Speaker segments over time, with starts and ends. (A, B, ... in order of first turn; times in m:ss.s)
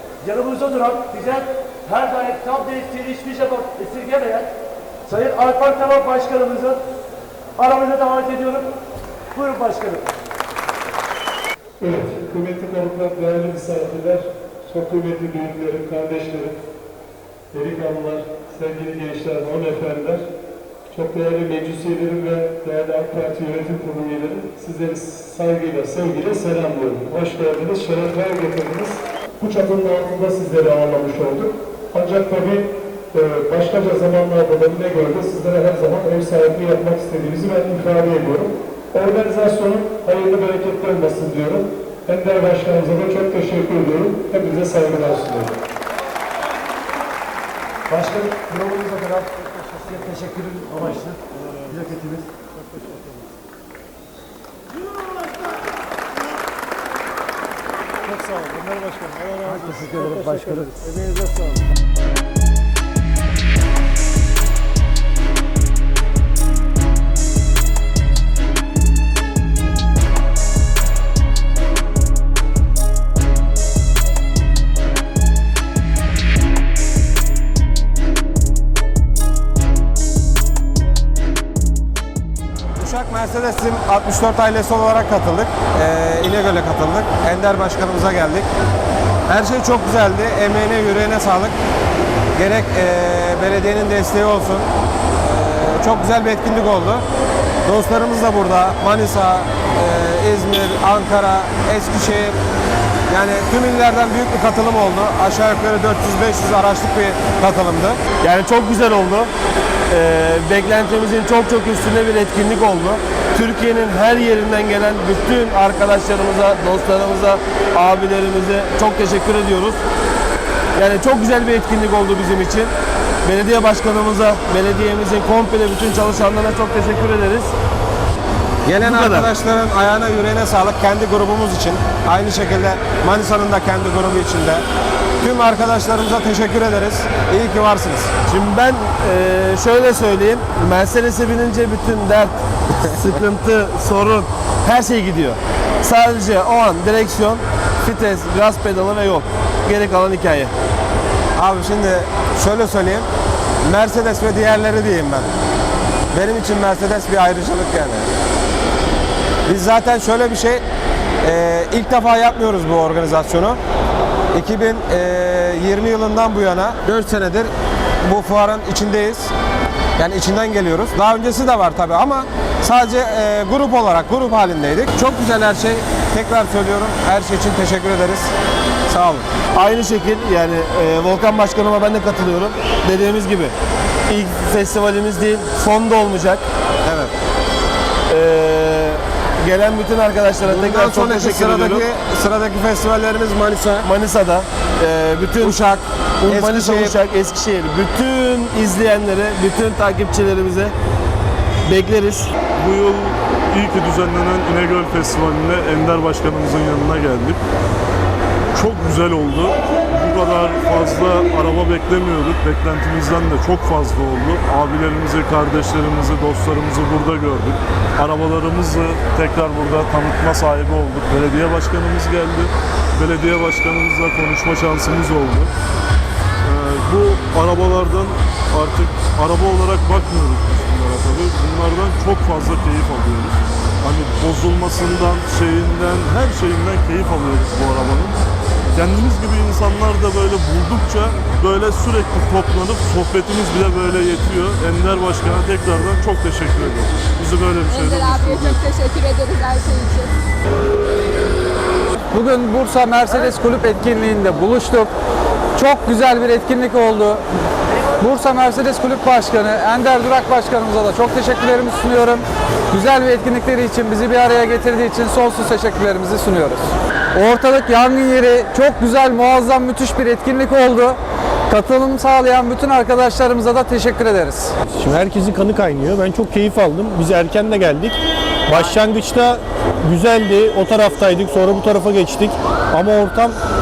0:00.2-0:04.5 A
0:05.0-0:06.8 A
0:07.6-0:08.7 A
0:09.3-0:10.0 A
0:11.8-0:16.5 B
0:18.5-0:20.1 B
0:21.0-0:28.9 B
0:29.5-0:31.5 B
0:32.0-0:32.6 B
0:33.4-0:45.5 B
0:47.9-0:51.2 A
0:51.7-0:52.2 A
0:59.4-1:00.8 A
1:22.8-1:28.5 C
1:29.3-1:31.6 C
1:32.3-1:37.0 C
1:37.6-1:42.4 C
1:43.1-1:48.0 C
1:48.2-1:49.3 D
1:49.9-1:59.8 D
2:00.8-2:02.7 D
2:03.2-2:07.5 D
2:08.6-2:14.6 C
2:08.8-2:09.3 D
2:15.2-2:18.1 C
2:18.2-2:22.4 D
2:23.0-2:30.5 D
2:31.4-2:33.1 C
2:33.6-2:35.3 C
2:36.1-2:38.1 C
2:39.4-2:40.6 C
2:41.2-2:43.6 C
2:44.3-2:47.5 C
2:48.0-2:49.3 C
2:50.0-2:58.3 C
2:58.9-2:59.3 C
2:59.5-3:03.5 D
3:04.1-3:06.4 D
3:06.8-3:07.1 C
3:08.1-3:11.9 D
3:10.5-3:13.9 C
3:13.8-3:20.7 D
3:15.4-3:16.9 C
3:21.7-3:22.3 D
3:22.6-3:27.4 E
3:28.5-3:45.5 E
3:46.4-3:58.2 E
3:58.7-4:08.6 E
4:07.7-4:10.1 F
4:12.1-4:14.9 G
4:15.5-4:17.2 G
4:18.0-4:34.5 G
4:34.7-4:43.4 H